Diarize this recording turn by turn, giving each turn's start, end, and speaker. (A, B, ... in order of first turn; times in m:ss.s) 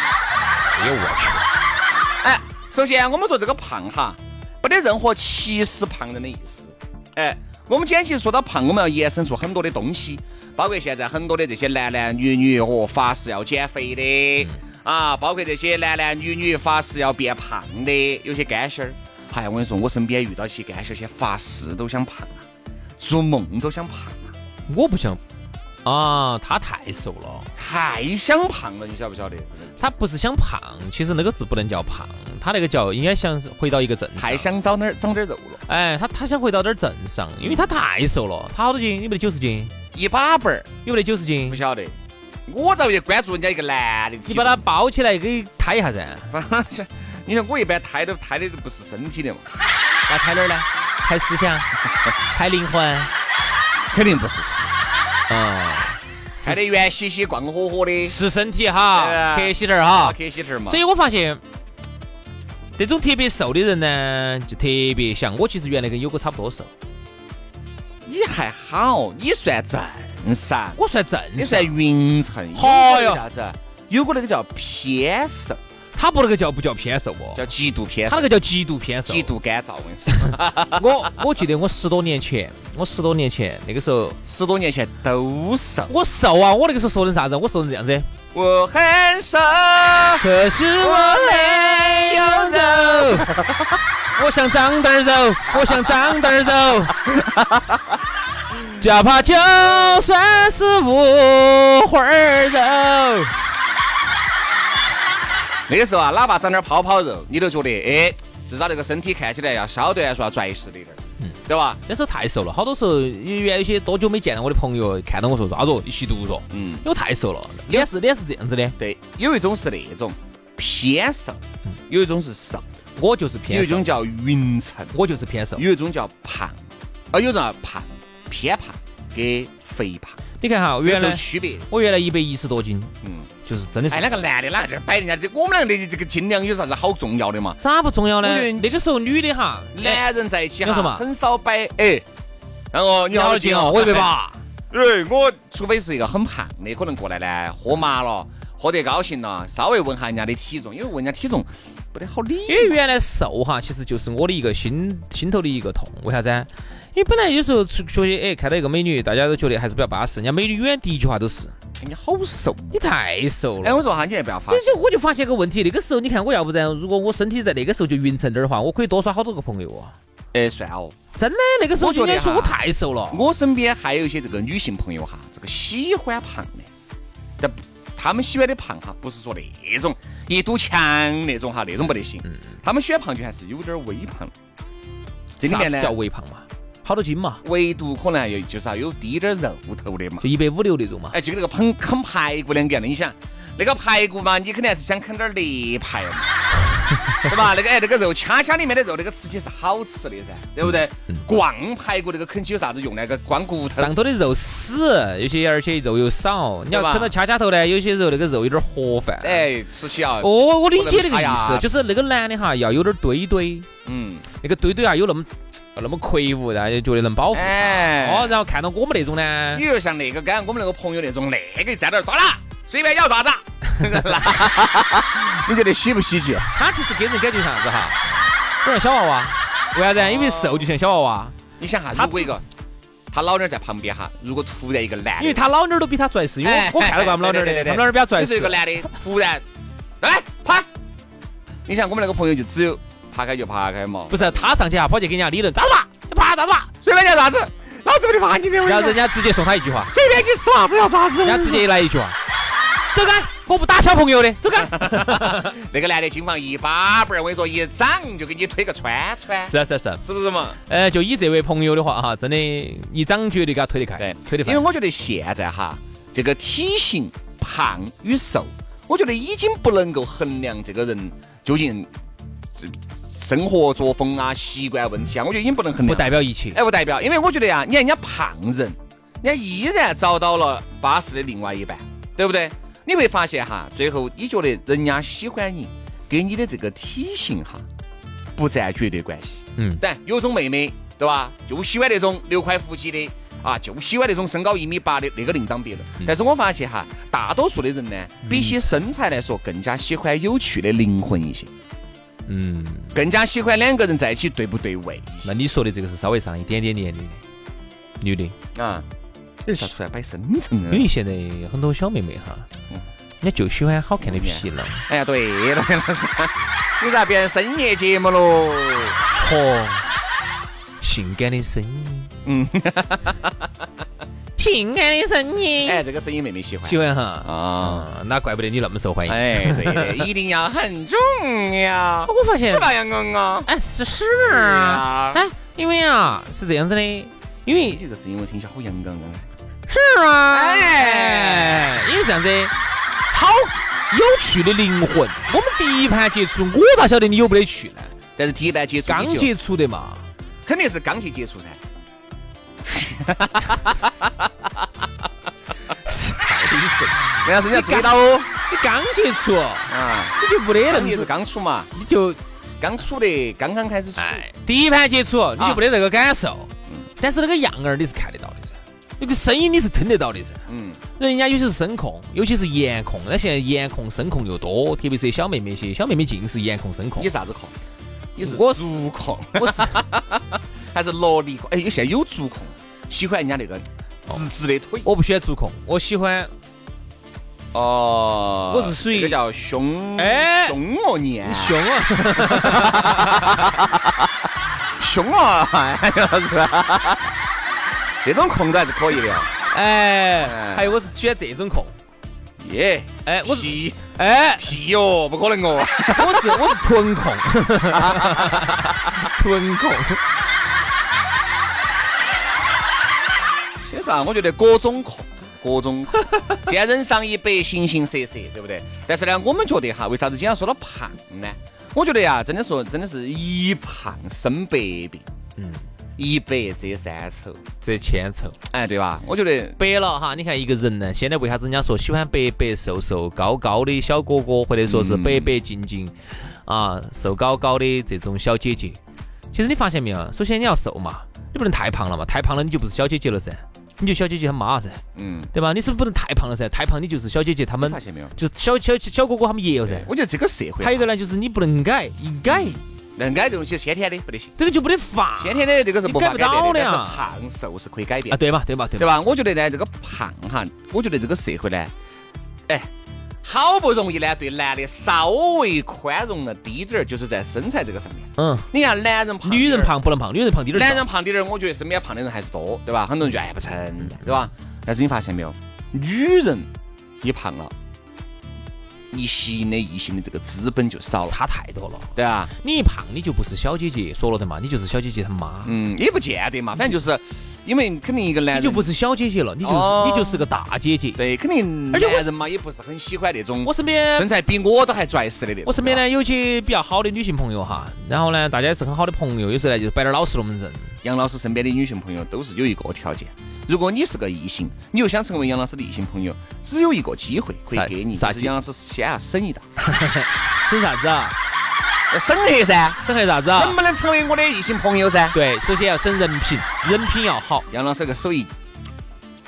0:00.7-0:01.5 A
0:02.2-0:22.4 B
0:23.0-0:24.3 B
0:24.7-0:25.2 A
0:25.8-0:27.5 A
0:27.5-0:29.8 B
0:29.8-0:34.5 A
0:34.2-0:35.6 B
0:35.7-0:39.7 A
0:39.9-0:40.7 B
0:40.8-0:41.6 A
0:41.5-0:41.9 B
0:42.5-0:44.7 B
0:44.3-0:46.3 A
0:46.3-0:49.5 B
0:50.1-0:51.7 A
0:52.3-0:53.1 A
0:53.9-0:54.6 B
0:55.3-0:56.6 A
0:56.4-0:58.2 B
0:58.0-1:00.2 A
0:58.9-1:00.8 B
1:00.7-1:01.4 A
1:02.8-1:06.7 A
1:08.0-1:10.8 B
1:10.8-1:11.8 A
1:11.4-1:15.6 B
1:12.5-1:13.2 A
1:15.9-1:17.4 A
1:17.3-1:18.3 B
1:18.1-1:19.3 A
1:19.1-1:21.1 B
1:20.8-1:24.2 A
1:24.2-1:25.9 B
1:25.9-1:28.1 A
1:28.3-1:30.2 B
1:30.2-1:33.3 A
1:30.8-1:33.8 B
1:34.2-1:37.0 A
1:35.6-1:35.9 B
1:37.1-1:37.8 B
1:38.8-1:43.3 A
1:45.7-1:51.8 B
1:51.2-1:58.8 A
1:56.5-1:56.8 B
1:58.8-2:02.6 B
2:03.0-2:03.9 A
2:03.5-2:04.9 B
2:04.9-2:05.6 A
2:05.5-2:10.2 B
2:10.4-2:12.9 A
2:10.8-2:11.7 B
2:13.0-2:13.3 B
2:13.4-2:14.1 A
2:13.9-2:17.6 B
2:17.6-2:20.0 A
2:18.2-2:18.8 B
2:19.7-2:22.0 B
2:20.6-2:21.0 A
2:22.7-2:24.1 B
2:23.1-2:24.4 A
2:24.7-2:32.7 B
2:32.5-2:41.5 A
2:41.8-2:42.8 B
2:42.7-2:43.8 A
2:43.6-2:44.8 B
2:44.5-2:49.9 A
2:50.3-2:51.0 B
2:51.1-2:53.2 A
2:51.8-2:52.6 B
2:53.1-2:56.7 B
2:57.4-3:04.3 B
3:05.4-3:06.0 B
3:05.4-3:07.4 A
3:07.4-3:10.2 B
3:10.2-3:11.2 A
3:11.1-3:16.3 B
3:17.3-3:23.9 B
3:23.8-3:29.5 A
3:26.7-3:27.1 B
3:29.2-3:31.9 B
3:30.2-3:33.7 A
3:33.8-3:34.3 B
3:34.4-3:39.6 A
3:37.3-3:38.4 B
3:39.5-3:46.5 B
3:46.5-3:48.0 A
3:48.6-3:51.3 A
3:49.9-3:50.7 B
3:51.6-3:52.4 B
3:51.9-3:52.4 A
3:53.1-3:55.4 B
3:55.2-3:58.8 A
3:56.4-3:59.4 B
4:00.0-4:00.7 B
4:01.6-4:04.5 B
4:04.1-4:06.7 A
4:06.8-4:09.0 B
4:08.6-4:09.9 A
4:09.9-4:11.7 B
4:11.2-4:12.2 A
4:12.9-4:15.5 A
4:14.5-4:20.6 B
4:19.4-4:20.0 A
4:20.6-4:24.6 A
4:24.0-4:31.9 B
4:32.5-4:47.6 B
4:35.8-4:36.6 A
4:48.4-5:01.5 B
4:49.6-4:49.8 A
4:58.2-4:58.7 A
5:02.3-5:02.9 A
5:02.9-5:05.3 B
5:05.2-5:07.2 A
5:08.0-5:08.4 A
5:08.5-5:08.8 B
5:09.4-5:10.9 B
5:10.7-5:12.5 A
5:13.2-5:14.8 A
5:14.0-5:19.0 B
5:19.2-5:19.8 A
5:20.8-5:22.1 A
5:22.2-5:23.3 B
5:24.4-5:25.8 A
5:25.6-5:27.9 B
5:26.6-5:30.0 A
5:29.1-5:33.5 B
5:32.0-5:32.7 A
5:33.4-5:37.8 A
5:34.2-5:35.2 B
5:37.5-5:39.3 B
5:39.7-5:42.5 A
5:40.3-5:41.7 B
5:43.1-5:47.9 A
5:48.2-5:49.3 B
5:48.9-5:50.0 A
5:50.4-5:51.6 B
5:52.6-5:54.3 B
5:55.7-6:01.1 A
5:57.2-5:58.3 B
5:59.7-6:01.7 B
6:01.7-6:02.2 A
6:02.6-6:04.2 B
6:04.0-6:10.4 A
6:10.5-6:10.8 B
6:11.0-6:17.1 A
6:17.0-6:17.5 B
6:18.2-6:24.9 B
6:18.2-6:18.6 A
6:19.3-6:19.8 A
6:24.8-6:26.3 A
6:27.5-6:33.9 B
6:28.5-6:29.2 A
6:30.0-6:30.6 A
6:31.2-6:33.6 A
6:34.8-6:37.1 B
6:38.0-6:39.3 B
6:39.5-6:41.7 A
6:40.2-6:40.8 B
6:42.4-6:43.8 B
6:43.0-6:44.5 A
6:44.4-6:46.6 B
6:45.9-6:50.0 A
6:47.7-6:48.7 B
6:53.6-7:05.0 B
7:05.4-7:05.6 A
7:06.0-7:07.4 B
7:07.6-7:08.4 A
7:08.5-7:09.6 B
7:09.6-7:18.8 A
7:14.6-7:15.3 B
7:19.3-7:24.8 A
7:24.9-7:25.3 B
7:25.3-7:29.9 A
7:27.6-7:28.1 B
7:29.7-7:30.9 B
7:30.6-7:32.6 A
7:32.3-7:34.3 B
7:34.4-7:37.0 A
7:35.2-7:38.2 B
7:38.1-7:38.9 A
7:38.8-7:41.7 B
7:43.2-7:49.7 B
7:48.2-7:48.5 A
7:49.2-7:50.8 A
7:50.5-7:56.5 B
7:57.0-7:57.5 B
7:58.9-8:01.1 B
8:01.1-8:05.5 A
8:01.9-8:02.3 B
8:05.4-8:08.7 B
8:08.3-8:11.0 A
8:09.4-8:10.3 B
8:10.9-8:15.8 B
8:11.7-8:12.0 A
8:13.4-8:14.1 A
8:15.4-8:20.7 A
8:20.8-8:29.4 B
8:27.5-8:28.3 A
8:29.6-8:31.2 A
8:31.9-8:35.2 B
8:32.8-8:33.6 A
8:35.1-8:37.4 A
8:37.5-8:38.3 B